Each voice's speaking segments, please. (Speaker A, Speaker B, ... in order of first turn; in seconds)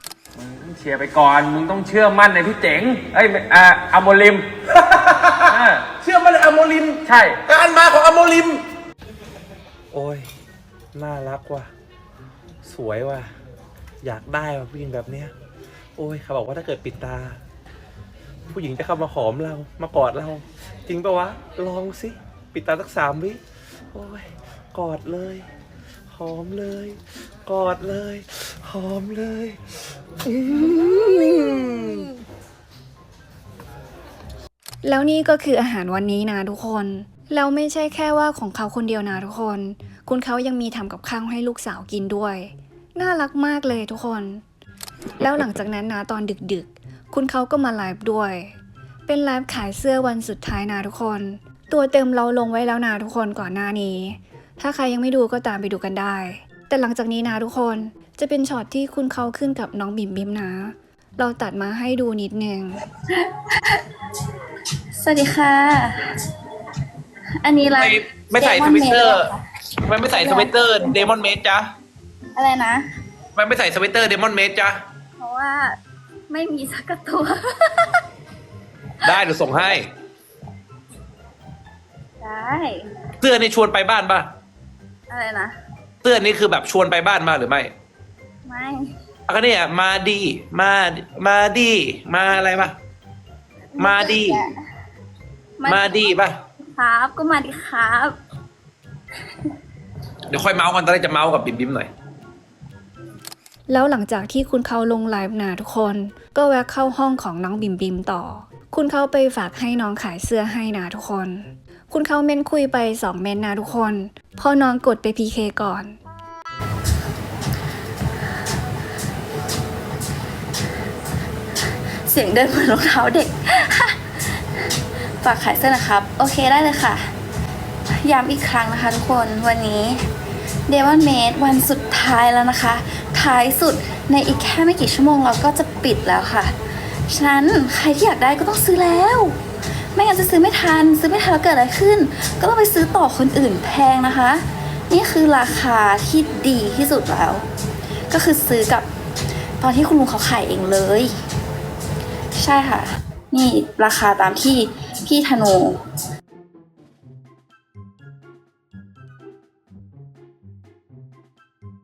Speaker A: 0.3-4.5, 5.5-5.9, 7.0-7.4
Speaker B: 6.0-8.6, 9.9-10.3, 10.9-11.7, 12.6-13.3, 14.0-15.3, 16.0-17.4, 18.5-23.4, 23.9-25.5, 26.1-32.1
Speaker C: 34.8-44.4, 45.2-48.5, 49.1-62.8, 103.7-116.0
Speaker D: 63.1-63.8, 65.0-66.3, 67.4-71.1, 72.3-72.8, 75.2-75.7, 76.3-78.0, 79.0-79.8, 82.2-82.9, 85.1-85.5, 88.5-88.9, 93.8-94.5, 95.6-98.2, 122.0-124.7, 125.2-127.1, 128.0-130.1, 130.7-136.5, 137.1-139.4, 139.9-147.4, 148.1-148.9, 149.6-151.1, 152.3-155.8
Speaker E: 67.7-69.2, 69.9-71.7, 73.4-74.8, 79.1-79.7, 83.2-84.2, 86.0-87.7, 89.3-92.7, 93.8-94.4, 95.7-96.2, 100.3-101.9